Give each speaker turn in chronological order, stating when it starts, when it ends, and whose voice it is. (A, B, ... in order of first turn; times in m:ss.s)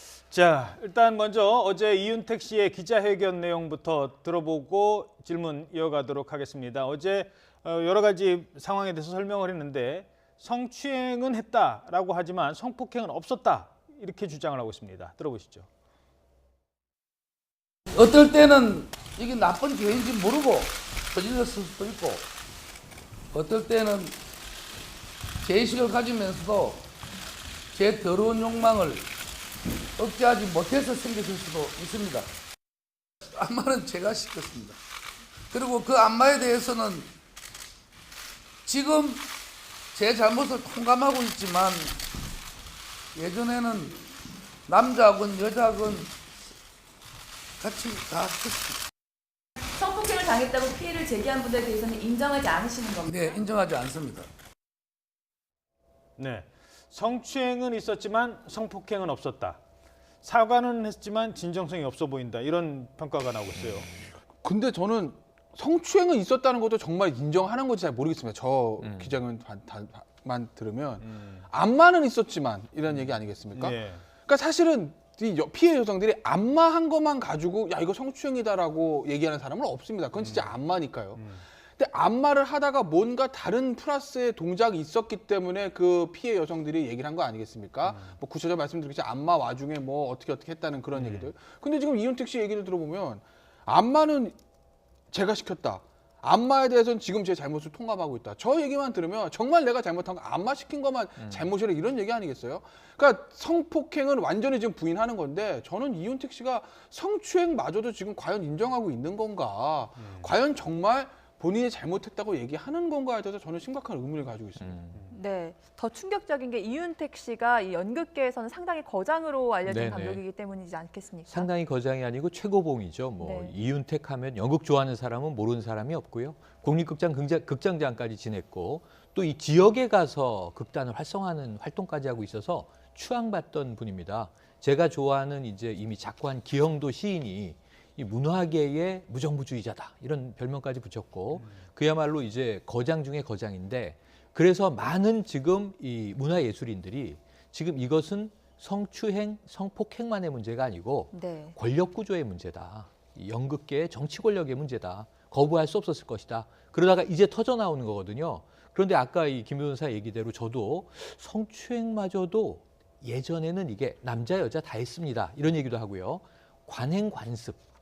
0:00.2-0:15.7 A
0:17.9-0:22.2 B
0:23.3-0:24.2 B
0:25.4-0:26.8 B
0:27.7-0:29.0 B
0:30.0-0:32.3 B
0:33.3-0:34.8 B
0:35.5-0:37.1 B
0:38.6-0:39.2 B
0:39.9-0:42.0 B
0:43.1-0:44.0 B
0:44.7-0:46.1 B
0:47.6-0:48.8 B
0:49.7-0:53.4 C
0:53.0-0:54.3 B
0:56.2-0:59.6 A
1:00.2-1:03.9 A
1:04.4-1:21.2 D
1:08.8-1:09.2 E
1:11.0-1:11.4 A
1:12.9-1:14.0 A
1:20.2-1:20.5 A
1:21.1-1:21.4 A
1:21.8-1:34.4 D
1:27.8-1:28.2 A
1:30.9-1:31.3 A
1:35.1-1:54.8 D
1:41.2-1:41.5 E
1:50.0-1:50.3 A
1:54.6-1:55.0 E
1:55.1-2:01.5 C
1:59.6-2:00.2 E
2:01.3-2:47.6 E
2:03.2-2:03.5 C
2:31.1-2:31.6 C